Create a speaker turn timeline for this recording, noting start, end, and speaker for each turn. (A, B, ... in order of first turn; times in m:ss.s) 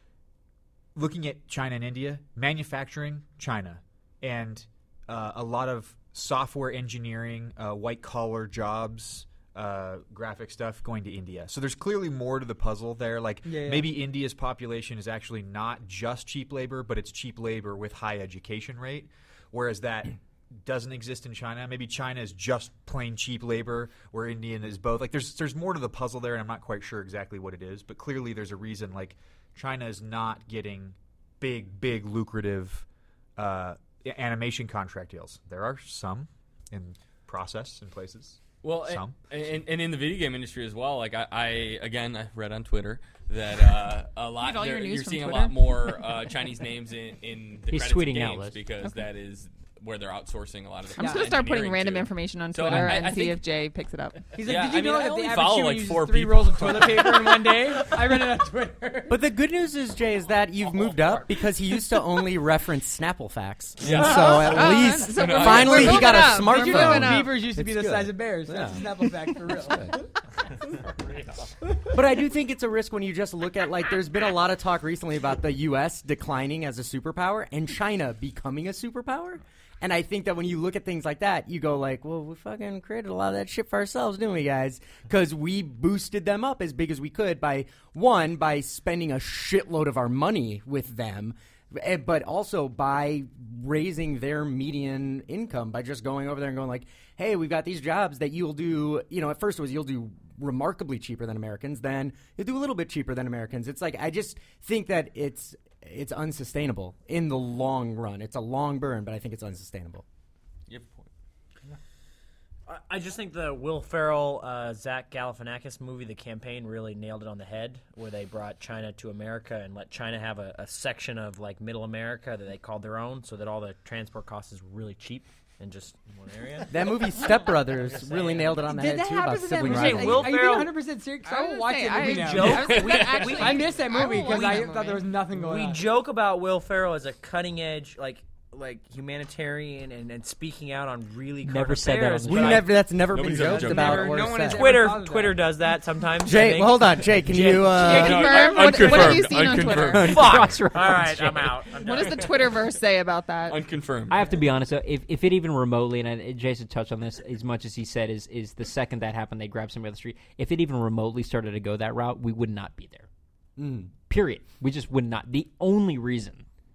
0:01.0-0:32.9 A
0:13.4-0:14.0 B
0:33.4-0:39.1 A
0:38.6-0:53.4 C
0:44.4-0:45.8 D
0:47.7-0:48.6 E
0:51.0-0:54.3 D
0:51.0-0:51.3 B
0:52.7-0:53.0 E
0:54.3-0:59.2 B
0:54.4-0:58.2 C
0:59.1-1:09.9 F
1:00.6-1:01.3 G
1:03.8-1:06.2 C
1:03.8-1:07.4 D
1:05.8-1:10.0 B
1:11.9-1:50.0 F
1:50.7-1:51.1 C
1:52.7-2:08.6 G
2:06.7-2:10.4 F
2:07.2-2:07.5 D
2:08.6-2:15.9 B
2:09.6-2:10.7 G
2:11.2-2:15.1 D
2:12.0-2:22.8 G
2:21.4-2:22.8 E
2:22.3-2:25.0 F
2:23.0-2:24.3 C
2:23.2-2:25.4 B
2:24.5-2:28.3 G
2:26.2-2:28.2 F
2:27.4-2:30.4 C
2:27.7-2:30.2 D
2:29.6-2:31.6 E
2:30.0-2:32.3 G
2:31.7-2:33.6 D
2:31.7-2:32.7 C
2:33.5-2:34.2 C
2:34.1-2:43.1 E
2:43.6-2:43.9 F
2:44.0-2:46.4 E